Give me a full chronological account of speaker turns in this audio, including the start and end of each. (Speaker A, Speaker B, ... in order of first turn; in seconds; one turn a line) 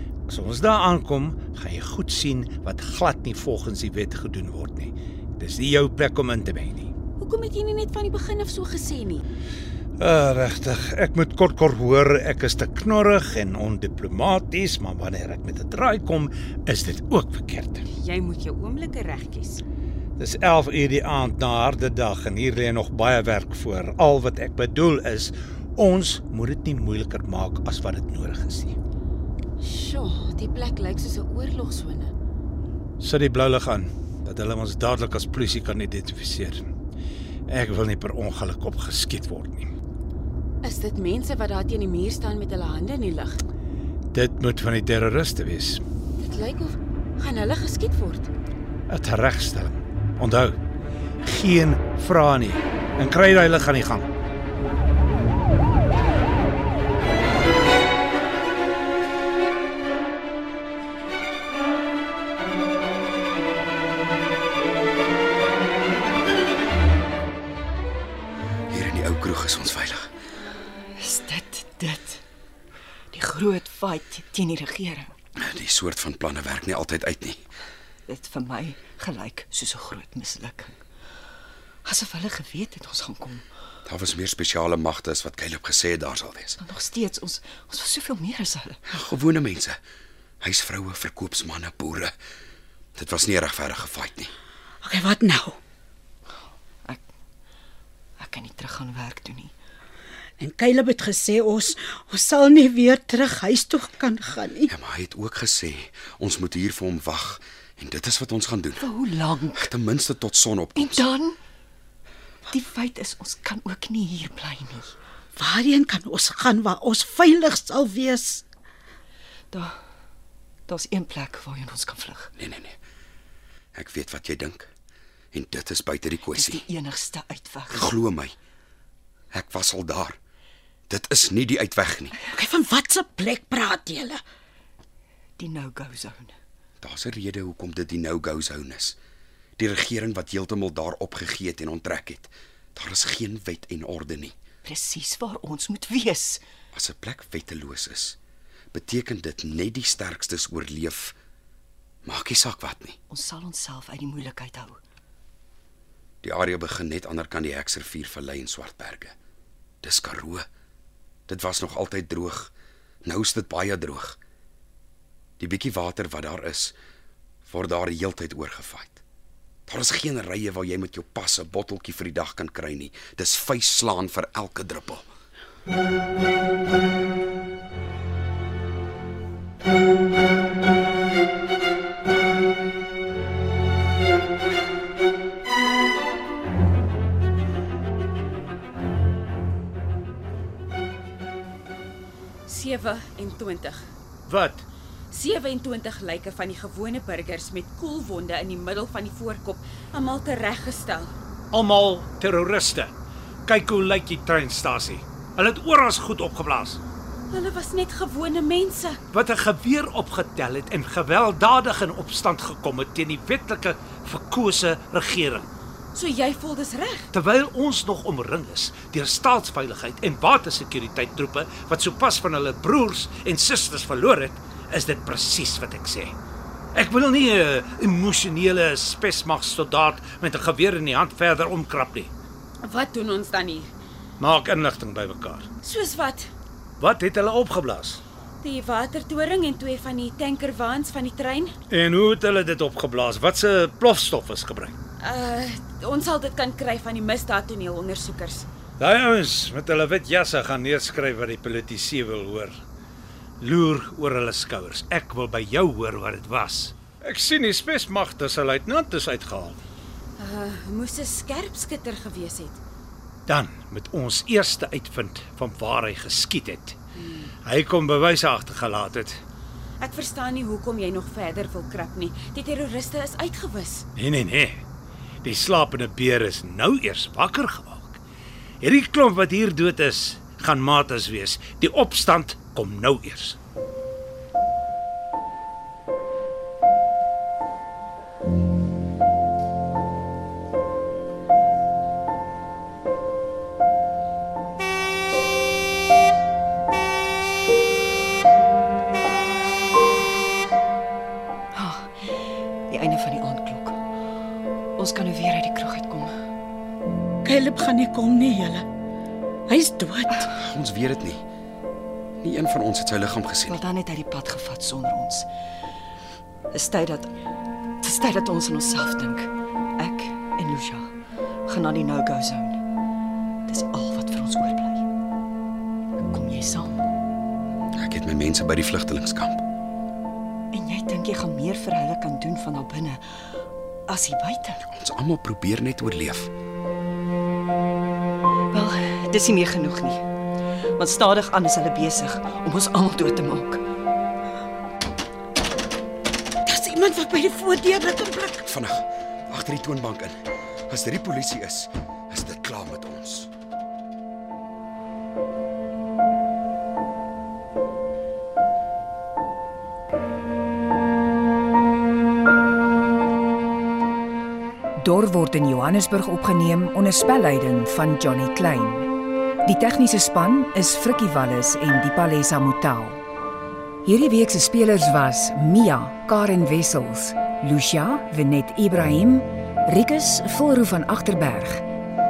Speaker A: 0.3-6.9
Speaker B: 7.2-9.2
Speaker A: 10.0-17.9
Speaker B: 17.9-19.6
Speaker A: 20.2-28.8
Speaker B: 29.6-32.1
Speaker A: 33.0-36.6
Speaker A: 37.5-39.7
Speaker B: 40.6-43.4
Speaker A: 44.1-45.8
Speaker B: 46.2-48.3
Speaker A: 48.9-50.6
Speaker A: 51.2-54.1
Speaker C: 68.7-70.1
Speaker D: 71.0-72.2
Speaker D: 73.1-75.1
Speaker C: 75.4-77.4
Speaker D: 78.1-80.8
Speaker D: 81.8-83.4
Speaker C: 83.8-86.6
Speaker D: 86.6-88.8
Speaker C: 88.9-89.8
Speaker C: 90.4-92.1
Speaker C: 93.0-94.3
Speaker E: 94.8-95.6
Speaker D: 98.2-99.5
Speaker E: 100.4-104.7
Speaker C: 104.7-108.9
Speaker D: 108.8-109.7
Speaker C: 109.5-111.1
Speaker D: 110.8-111.4
Speaker D: 112.5-115.0
Speaker E: 115.4-118.4
Speaker D: 120.7-122.3
Speaker C: 122.4-122.8
Speaker C: 123.7-124.7
Speaker C: 125.3-126.7
Speaker D: 126.3-127.9
Speaker C: 127.7-128.3
Speaker C: 129.3-130.2
Speaker C: 130.9-132.2
Speaker E: 132.3-134.2
Speaker D: 135.4-136.3
Speaker C: 136.8-139.0
Speaker C: 139.6-144.3
Speaker D: 144.7-146.4
Speaker C: 146.7-148.2
Speaker C: 148.7-151.2
Speaker C: 152.1-153.0
Speaker D: 153.1-154.8
Speaker C: 156.2-159.2
Speaker C: 159.8-160.5
Speaker C: 161.3-162.5
Speaker C: 163.0-164.2
Speaker C: 165.4-166.8
Speaker C: 167.4-169.0
Speaker C: 169.7-175.1
Speaker B: 192.5-193.9
Speaker A: 194.3-194.7
Speaker B: 195.1-201.1
Speaker A: 201.5-202.9
Speaker A: 203.5-206.8
Speaker B: 207.3-209.0
Speaker A: 209.1-215.5
Speaker B: 215.9-217.1
Speaker A: 217.1-226.2
Speaker A: 226.8-232.1
Speaker B: 232.6-233.7
Speaker A: 234.2-235.5
Speaker B: 235.6-236.3
Speaker A: 236.8-238.0
Speaker B: 238.4-241.6
Speaker A: 241.7-244.8
Speaker B: 245.0-248.5
Speaker A: 248.8-252.6
Speaker A: 253.4-259.6
Speaker B: 260.2-262.6
Speaker A: 263.3-266.8
Speaker B: 267.0-267.3
Speaker A: 267.4-269.2
Speaker B: 269.8-273.9
Speaker A: 274.0-274.6
Speaker A: 275.2-278.0
Speaker A: 278.6-283.4
Speaker D: 301.6-302.2
Speaker D: 302.7-303.8
Speaker D: 304.8-306.1
Speaker E: 307.2-308.7
Speaker E: 309.5-310.2
Speaker C: 310.2-311.2
Speaker C: 312.2-313.6
Speaker D: 313.5-315.3
Speaker D: 316.5-317.1
Speaker D: 317.8-320.9
Speaker D: 321.5-322.6
Speaker D: 323.5-324.9
Speaker D: 326.1-326.8
Speaker C: 327.8-329.4
Speaker D: 330.5-333.2
Speaker D: 333.9-334.6
Speaker C: 334.7-336.3
Speaker D: 338.5-340.0
Speaker D: 340.8-343.6
Speaker E: 346.5-348.4
Speaker C: 348.4-353.3
Speaker F: 364.8-368.9
Speaker F: 369.4-373.0
Speaker F: 373.8-381.6